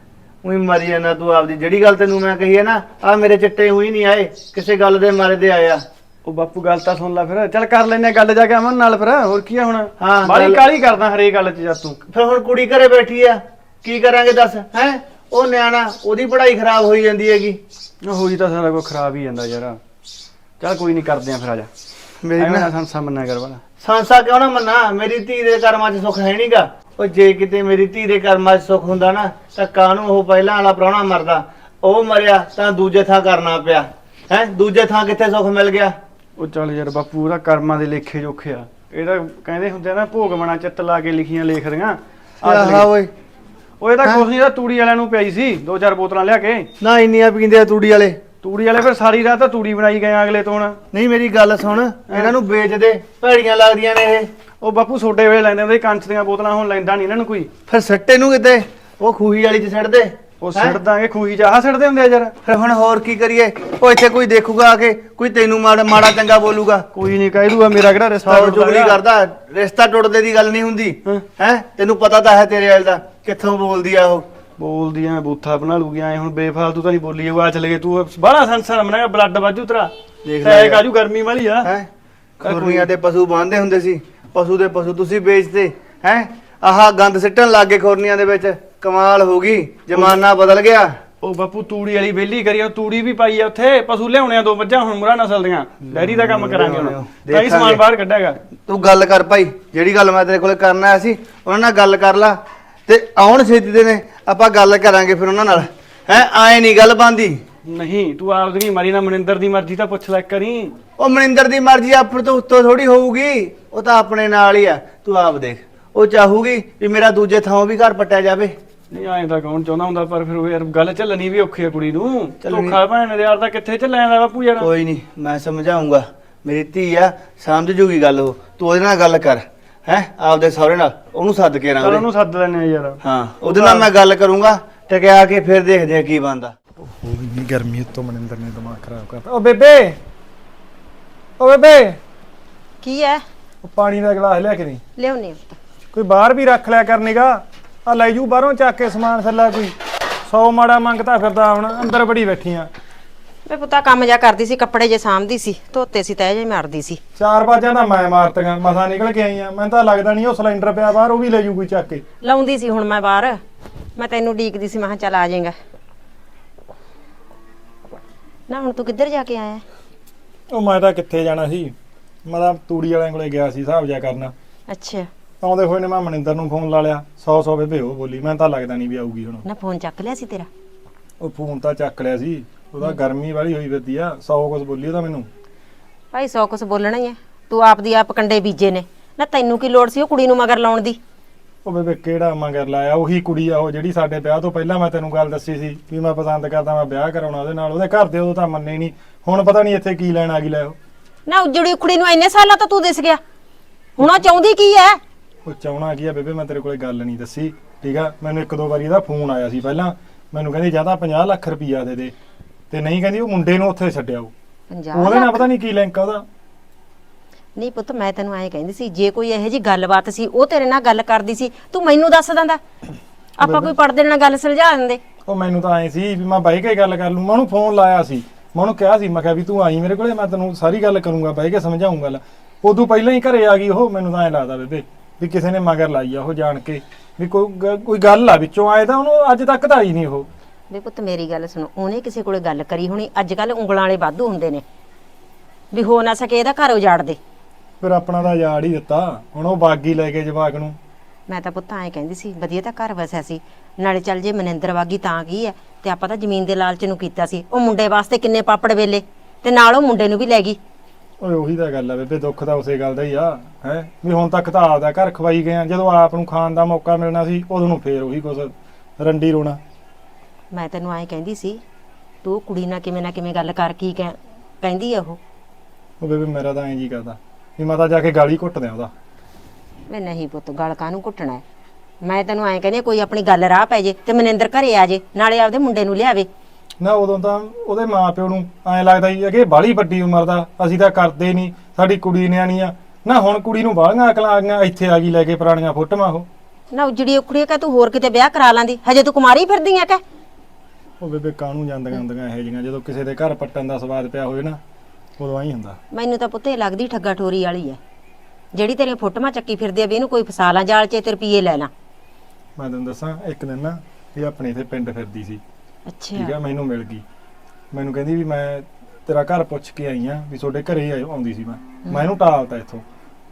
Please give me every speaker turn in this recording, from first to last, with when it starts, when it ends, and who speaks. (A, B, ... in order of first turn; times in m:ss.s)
0:00.4-0:05.8 A
0:06.2-0:12.0 B
0:10.0-0:10.6 A
0:12.1-0:17.6 A
0:18.0-0:19.8 B
0:20.6-0:21.7 B
0:22.2-0:22.6 A
0:22.4-0:23.6 B
0:23.8-0:36.0 A
0:36.4-0:42.9 B
0:42.4-0:43.1 A
0:43.8-0:46.7 B
0:46.8-0:48.2 A
0:48.4-0:50.8 B
0:50.9-0:54.3 A
0:52.1-0:52.3 B
0:54.6-0:57.5 B
0:57.7-1:00.8 A
1:00.4-1:02.3 B
1:02.4-1:06.8 A
1:06.9-1:09.0 B
1:08.3-1:14.3 A
1:14.6-1:21.7 B
1:20.2-1:20.8 A
1:22.4-1:22.9 B
1:22.4-1:31.0 A
1:31.2-1:38.4 B
1:35.9-1:37.8 A
1:38.6-1:47.4 A
1:47.6-1:50.8 B
1:51.0-1:58.5 A
1:58.9-2:04.7 B
2:02.4-2:02.8 A
2:04.6-2:12.0 A
2:11.8-2:13.9 B
2:13.0-2:16.5 A
2:16.8-2:20.0 C
2:21.4-2:22.0 C
2:22.8-2:23.2 D
2:23.6-2:24.8 C
2:25.0-2:25.6 D
2:25.9-2:32.7 C
2:33.4-2:37.0 D
2:37.2-2:42.0 C
2:42.2-2:43.4 D
2:44.0-2:45.6 D
2:48.5-2:49.6 D
2:50.5-2:54.3 C
2:54.7-2:55.1 D
2:55.4-2:59.4 C
2:59.4-3:00.5 D
3:01.2-3:05.3 C
3:06.1-3:11.0 D
3:11.6-3:20.8 C
3:21.3-3:23.2 D
3:24.0-3:25.0 D
3:25.4-3:32.1 C
3:32.7-3:34.3 C
3:34.7-3:35.5 D
3:34.9-3:36.2 C
3:37.6-3:42.6 D
3:43.4-3:45.0 D
3:43.4-3:43.7 C
3:45.2-4:00.3 C
4:00.7-4:04.6 D
4:05.7-4:07.2 D
4:07.8-4:10.8 C
4:11.3-4:20.6 D
4:21.2-4:29.6 C
4:30.5-4:31.6 D
4:32.2-4:35.2 D
4:36.0-4:38.9 C
4:39.9-4:41.4 D
4:42.0-4:46.3 D
4:46.8-4:56.3 C
4:56.7-5:00.0 D
5:01.0-5:04.6 C
5:05.2-5:05.8 C
5:05.9-5:07.8 D
5:08.5-5:11.7 D
5:12.6-5:15.4 C
5:15.9-5:16.3 D
5:16.1-5:17.0 C
5:17.7-5:22.8 C